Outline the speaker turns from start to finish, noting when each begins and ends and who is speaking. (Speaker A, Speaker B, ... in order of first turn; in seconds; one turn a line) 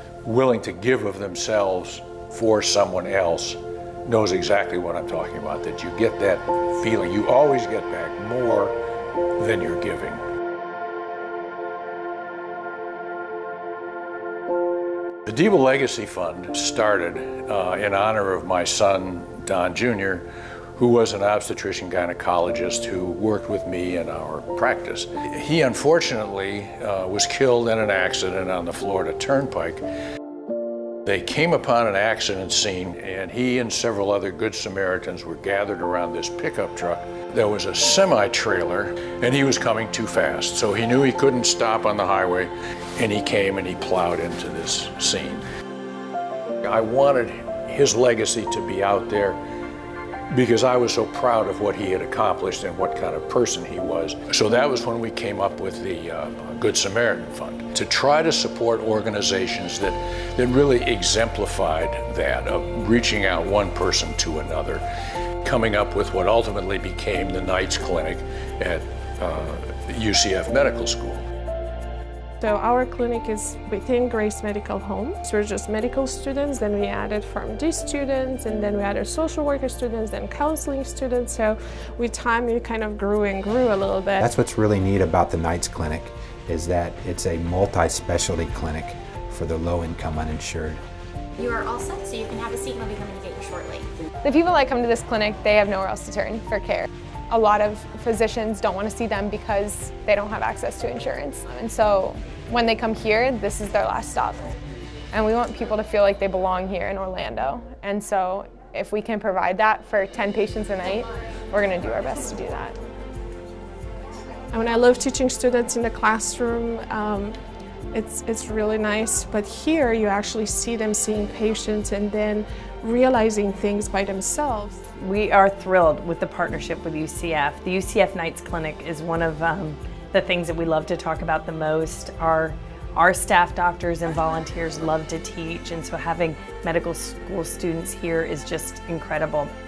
Speaker A: 0.2-8.8
Speaker A: 9.4-10.2
Speaker A: 15.3-29.8
Speaker A: 31.1-45.4
Speaker A: 46.6-49.4
Speaker A: 50.3-64.8
Speaker A: 65.4-71.2
Speaker B: 72.4-84.3
Speaker C: 84.2-90.8
Speaker D: 91.4-93.9
Speaker E: 94.2-104.5
Speaker E: 105.1-112.8
Speaker B: 114.5-117.4
Speaker B: 117.9-124.8
Speaker F: 125.0-139.5